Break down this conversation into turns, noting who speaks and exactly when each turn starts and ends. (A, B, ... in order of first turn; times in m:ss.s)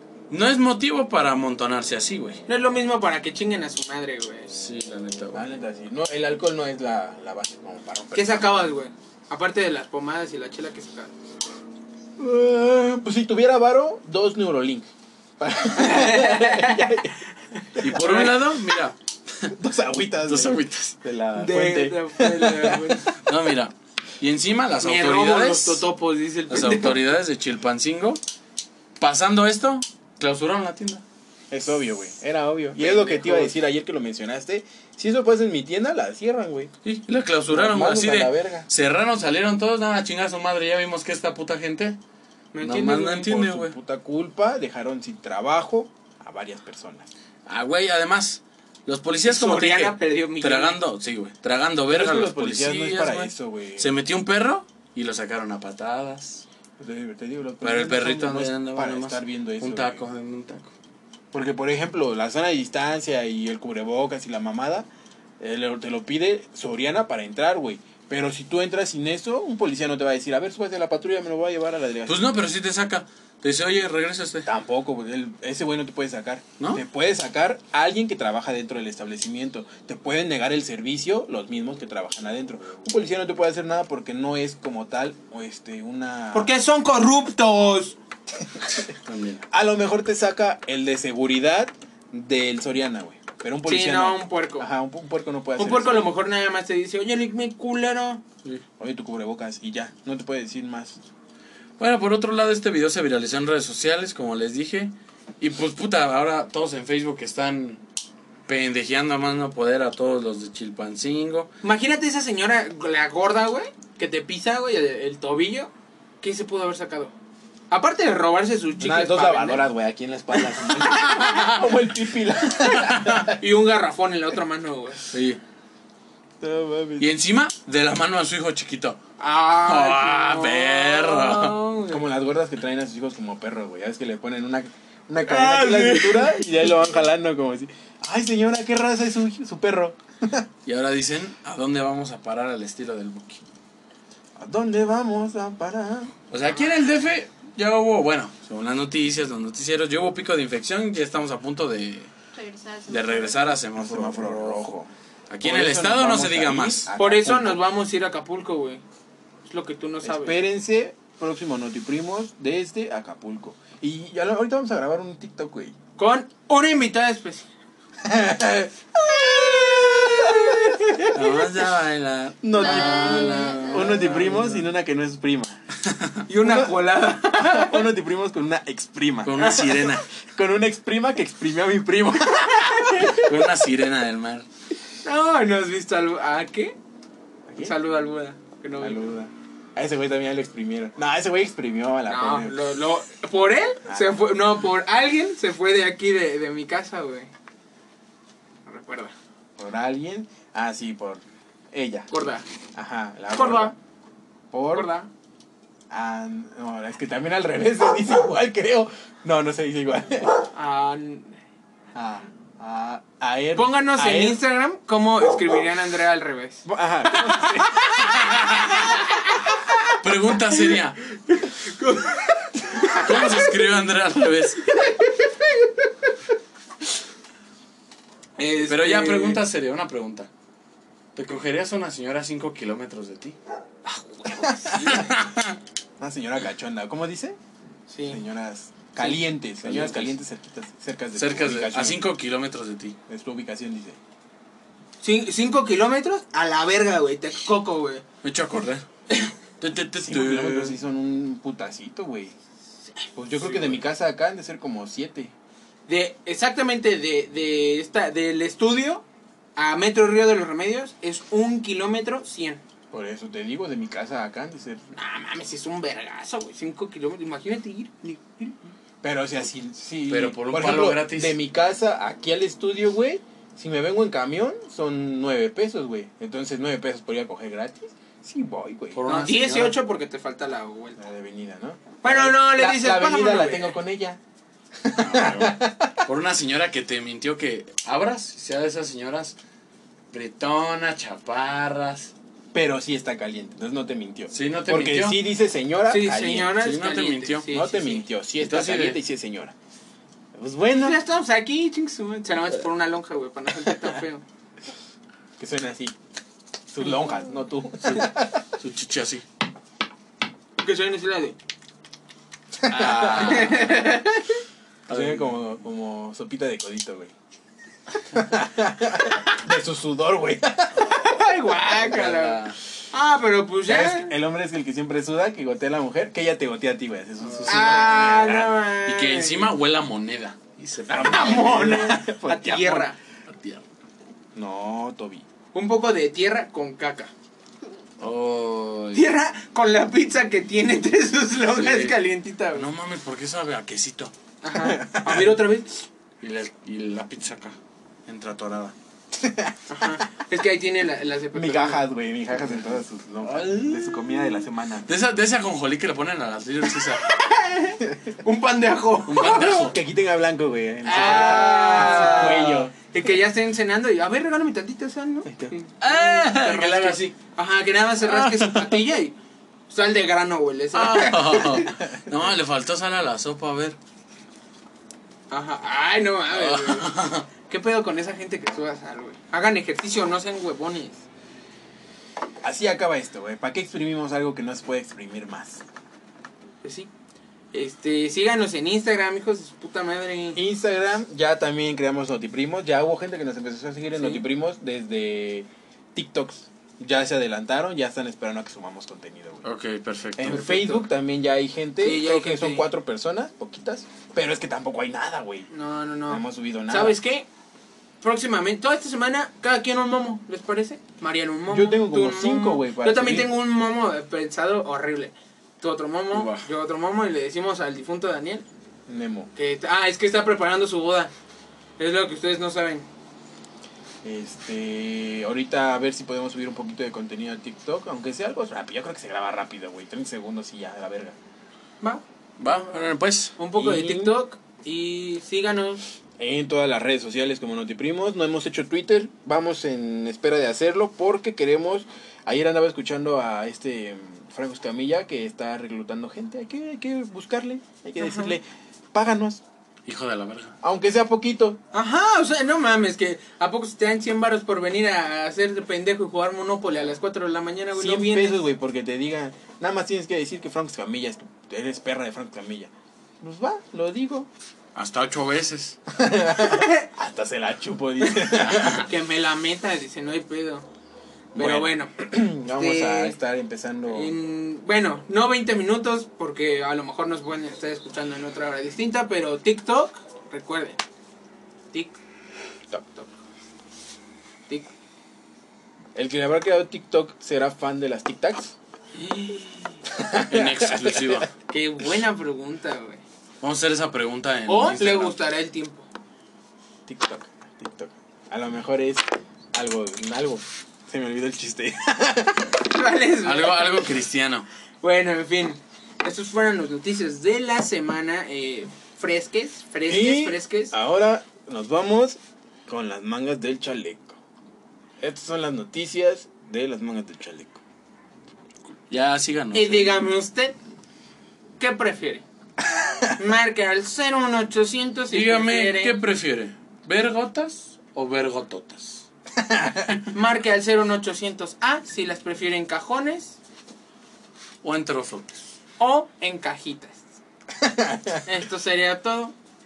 0:00.3-0:02.4 A
0:02.5-0:04.6 B
0:04.5-0:05.4 A
0:05.3-0:08.7 C
0:08.1-0:11.1 B
0:12.2-0:14.9 C
0:15.4-0:17.2 C
0:15.7-0:17.0 B
0:17.6-0:18.3 B
0:17.8-0:18.3 C
0:17.8-0:19.5 A
0:19.6-0:23.1 C
0:20.2-0:21.0 A
0:21.4-0:23.1 B
0:23.2-0:25.9 A
0:24.8-0:27.0 B
0:26.5-0:28.2 A
0:29.0-0:31.0 A
0:31.5-0:36.7 C
0:32.8-0:33.5 B
0:36.8-0:42.0 A
0:37.5-0:38.7 C
0:42.5-0:43.3 B
0:42.6-0:43.7 A
0:43.2-0:47.1 C
0:47.4-0:56.4 A
0:49.2-0:50.8 B
0:51.9-0:54.0 C
0:56.8-1:00.0 C
0:57.6-1:00.7 A
1:01.3-1:04.9 C
1:05.4-1:12.3 C
1:12.0-1:14.5 A
1:14.4-1:26.5 C
1:26.3-1:28.0 B
1:28.9-1:29.4 A
1:29.5-1:36.1 C
1:33.7-1:34.7 B
1:35.6-1:38.2 B
1:38.8-1:41.0 C
1:41.8-1:47.8 A
1:48.5-1:51.5 A
1:51.6-1:57.1 B
1:57.7-1:59.7 B
1:58.8-2:03.4 C
2:00.9-2:01.7 A
2:02.6-2:03.2 A
2:03.3-2:05.1 B
2:05.1-2:05.4 A
2:06.4-2:07.1 C
2:07.0-2:09.0 A
2:09.2-2:12.0 B
2:09.5-2:11.6 A
2:11.9-2:20.5 C
2:15.2-2:16.4 B
2:20.6-2:23.4 A
2:24.4-2:26.1 C
2:26.3-2:32.1 A
2:32.3-2:33.6 D
2:32.9-2:34.7 A
2:33.7-2:34.9 C
2:35.3-2:36.9 A
2:35.4-2:37.6 C
2:37.0-2:38.8 B
2:39.4-2:40.4 B
2:40.0-2:45.7 C
2:46.0-2:47.5 B
2:48.0-2:51.4 C
2:49.3-2:51.2 B
2:51.1-2:54.6 A
2:52.4-2:55.6 C
2:52.6-2:54.1 D
2:56.3-2:57.9 B
2:56.3-3:03.5 C
2:59.2-3:00.0 A
3:02.4-3:03.0 B
3:03.0-3:04.4 A
3:05.0-3:06.8 B
3:07.5-3:07.7 C
3:07.6-3:09.0 B
3:08.8-3:12.6 C
3:12.1-3:17.3 B
3:13.8-3:14.2 C
3:18.7-3:19.1 B
3:19.6-3:22.1 C
3:22.1-3:22.4 B
3:22.7-3:23.7 C
3:23.3-3:23.7 B
3:24.5-3:24.9 C
3:24.7-3:25.1 B
3:25.9-3:30.4 C
3:30.5-3:31.4 B
3:31.9-3:34.4 C
3:33.6-3:37.8 B
3:36.7-3:38.4 C
3:38.0-3:39.0 A
3:38.5-3:40.0 B
3:39.9-3:41.0 A
3:40.6-3:43.5 B
3:42.9-3:44.7 A
3:44.8-3:45.3 B
3:48.4-3:49.4 B
3:48.7-3:50.3 A
3:51.1-3:53.4 A
3:53.9-3:55.1 B
3:54.4-3:55.0 C
3:54.8-3:55.6 A
3:56.0-3:57.4 C
3:57.9-3:58.2 B
3:58.0-4:02.1 C
3:59.6-4:00.1 A
4:01.2-4:03.0 A
4:03.1-4:04.0 C
4:05.0-4:08.0 B
4:08.2-4:08.9 A
4:09.6-4:10.8 A
4:10.0-4:12.3 C
4:13.2-4:15.3 C
4:15.9-4:19.0 B
4:19.6-4:22.6 B
4:22.9-4:24.8 C
4:24.9-4:28.6 B
4:29.0-4:39.0 C
4:30.1-4:31.4 A
4:38.9-4:39.8 A
4:39.1-4:41.0 B
4:41.0-4:44.2 C
4:42.0-4:43.8 B
4:44.8-4:46.0 C
4:45.0-4:49.3 A
4:50.1-4:52.1 A
4:52.5-4:56.6 C
4:54.3-4:55.2 A
4:55.9-4:58.0 B
4:56.6-4:57.5 A
4:57.5-4:59.5 C
4:58.4-4:59.0 A
5:00.3-5:01.0 C
5:00.7-5:04.2 B
5:05.4-5:06.0 C
5:06.7-5:08.4 C
5:07.8-5:09.2 A
5:10.6-5:11.4 B
5:12.6-5:13.5 C
5:12.7-5:13.8 A
5:13.0-5:14.4 B
5:14.9-5:15.3 A
5:14.9-5:17.1 C
5:18.1-5:21.0 C
5:20.8-5:24.1 B
5:21.7-5:22.6 A
5:23.7-5:28.6 C
5:27.2-5:31.7 A
5:27.5-5:29.5 B
5:30.9-5:32.9 C
5:31.0-5:33.0 B
5:33.3-5:33.6 A
5:34.3-5:35.3 C
5:35.5-5:37.1 B
5:38.0-5:39.0 A
5:38.9-5:42.7 B
5:41.4-5:42.0 A
5:42.5-5:44.1 A
5:44.4-5:45.9 B
5:44.6-5:45.3 C
5:46.2-5:48.7 A
5:49.2-5:49.6 C
5:49.7-5:51.9 B
5:51.3-5:54.9 C
5:53.2-5:57.1 A
5:57.1-5:59.7 B
5:59.1-5:59.8 A
5:59.4-6:02.7 C
6:00.8-6:09.1 B
6:01.0-6:02.5 A
6:05.3-6:05.6 C
6:05.8-6:07.1 A
6:08.0-6:08.8 A
6:09.7-6:11.8 B
6:10.7-6:13.8 A
6:15.3-6:21.0 B
6:16.3-6:17.3 A
6:22.4-6:25.6 C
6:26.6-6:26.9 B
6:27.5-6:30.4 B
6:30.3-6:39.4 C
6:34.0-6:34.2 B
6:39.4-6:40.5 A
6:40.2-6:45.5 C
6:40.3-6:40.9 B
6:41.8-6:42.7 B
6:45.5-6:47.3 B
6:46.1-6:47.0 C
6:48.0-6:58.4 B
6:51.5-6:53.3 C
6:56.1-6:56.5 A
6:58.9-6:59.3 C
6:59.3-7:01.1 B
7:01.8-7:02.9 B
7:04.0-7:11.2 C
7:11.8-7:12.6 B
7:12.4-7:13.3 A
7:13.4-7:15.8 B
7:13.5-7:14.2 C
7:16.2-7:29.4 C
7:28.0-7:28.4 B
7:29.9-7:30.6 A
7:30.6-7:31.6 C
7:31.7-7:38.4 B
7:37.7-7:44.3 C
7:44.7-7:45.8 A
7:45.9-7:48.9 C
7:46.5-7:46.8 B
7:48.1-7:50.6 B
7:51.3-7:53.2 B
7:51.3-7:54.1 C
7:53.9-8:00.8 B
8:01.7-8:02.0 B
8:02.7-8:03.1 B
8:06.0-8:08.6 C
8:08.9-8:09.8 B
8:10.0-8:11.2 C
8:10.2-8:11.3 A
8:11.5-8:13.0 B
8:13.4-8:15.2 A
8:14.5-8:15.9 B
8:16.9-8:22.6 C
8:22.6-8:23.9 B
8:23.2-8:24.5 A
8:24.8-8:30.7 B
8:29.9-8:34.2 C
8:35.0-8:37.6 C
8:38.9-8:40.1 A
8:39.5-8:40.6 B
8:41.6-8:42.2 B
8:42.9-8:43.1 C
8:43.2-8:46.0 B
8:45.1-8:49.1 A
8:49.4-8:50.0 C
8:50.1-8:53.4 B
8:54.6-8:55.5 A
8:55.8-8:57.0 B
8:57.6-8:58.2 C
8:58.3-8:59.3 B